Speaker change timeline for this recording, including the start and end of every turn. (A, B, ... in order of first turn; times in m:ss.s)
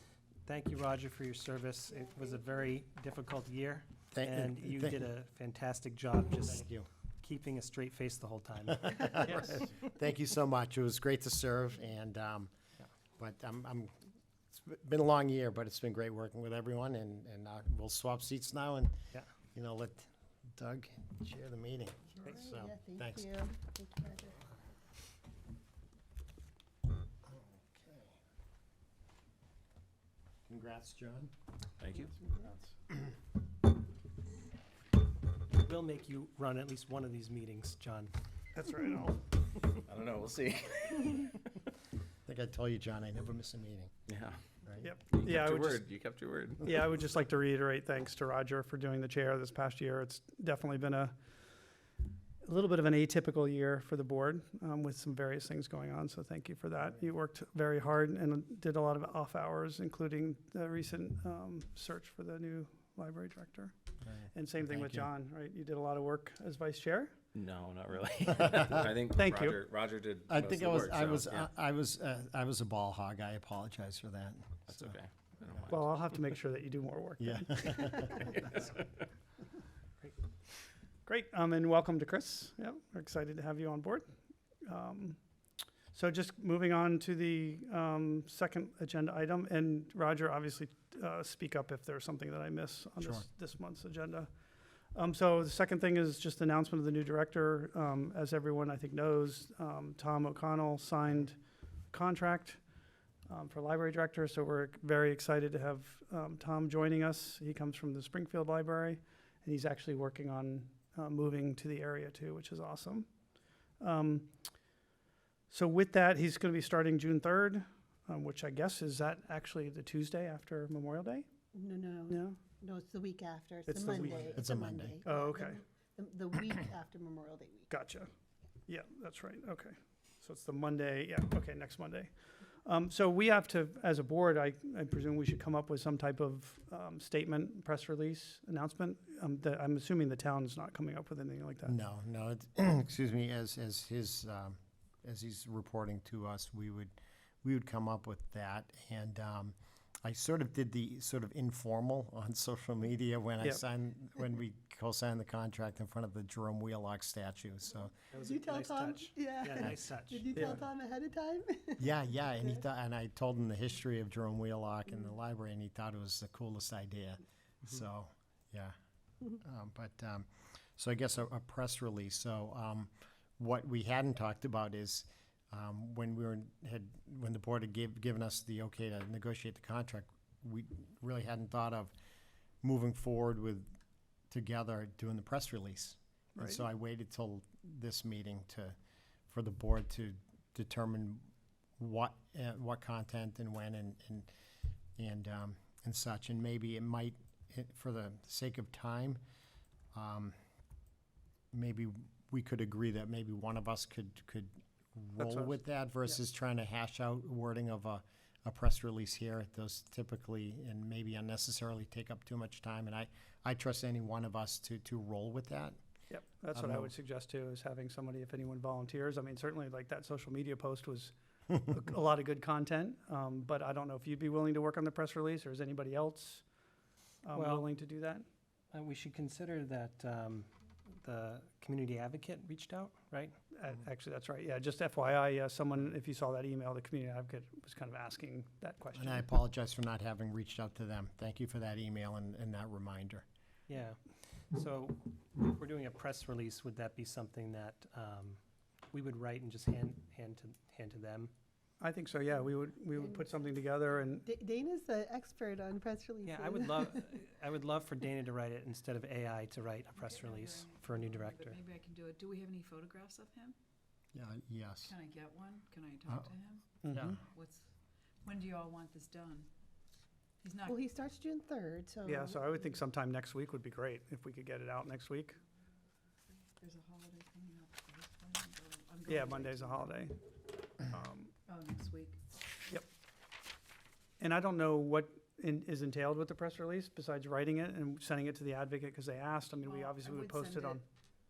0:00.4-0:06.7 A
0:04.1-0:05.1 B
0:06.4-0:06.9 B
0:07.2-0:09.5 A
0:08.7-0:12.5 B
0:13.2-0:13.9 B
0:14.5-0:19.0 B
0:19.5-0:23.3 B
0:22.3-0:24.4 C
0:27.2-0:28.2 B
0:30.5-0:31.3 B
0:31.8-0:32.5 D
0:35.5-0:38.1 A
0:38.5-0:39.3 E
0:39.6-0:41.7 D
0:42.2-0:43.9 B
0:44.1-0:44.4 D
0:44.6-0:44.9 B
0:44.8-0:45.9 E
0:45.1-0:46.6 D
0:46.6-0:51.2 E
0:52.4-1:03.7 E
1:04.0-1:05.1 B
1:04.3-1:07.3 E
1:07.3-1:11.5 D
1:08.7-1:09.6 E
1:10.3-1:15.0 B
1:14.7-1:16.2 D
1:15.7-1:18.5 E
1:17.2-1:18.4 B
1:21.0-1:24.1 E
1:24.6-1:25.2 E
1:25.9-1:34.3 E
1:34.9-1:41.4 E
1:41.9-1:42.6 E
1:43.3-1:53.1 E
1:53.8-1:54.3 E
1:55.5-2:01.2 E
2:01.5-2:07.7 C
2:02.1-2:02.4 E
2:03.7-2:04.4 E
2:04.3-2:05.0 B
2:05.0-2:05.6 E
2:07.7-2:08.1 E
2:08.7-2:12.1 E
2:12.6-2:21.7 E
2:21.7-2:37.9 B
2:38.1-2:40.6 A
2:38.2-2:42.6 C
2:40.3-2:40.6 E
2:41.8-2:48.7 B
2:49.4-3:01.9 B
3:02.6-3:03.7 B
3:04.3-3:08.7 B
3:06.4-3:06.6 E
3:09.3-3:11.3 B
3:11.8-3:14.3 B
3:15.0-3:19.2 B
3:19.9-3:20.3 B
3:21.5-3:35.8 B
3:25.2-3:25.6 E
3:36.1-3:46.4 E
3:36.5-3:36.9 B
3:47.2-3:48.2 E
3:47.3-3:47.7 A
3:48.7-3:53.4 A
3:53.5-3:59.3 E
3:58.9-4:03.2 B
4:03.7-4:11.3 A
4:11.8-4:14.2 E
4:13.0-4:13.3 C
4:14.2-4:17.1 C
4:16.2-4:21.6 A
4:20.0-4:23.6 F
4:24.1-4:24.9 B
4:24.8-4:27.7 F
4:26.8-4:27.2 E
4:26.9-4:27.2 A
4:28.2-4:29.5 F
4:30.4-4:30.8 F
4:30.6-4:32.7 C
4:32.0-4:35.4 E
4:36.6-4:40.0 F
4:39.1-4:40.2 E
4:40.8-4:41.3 E
4:41.4-4:42.2 F
4:44.2-4:50.8 E
4:49.6-4:50.8 F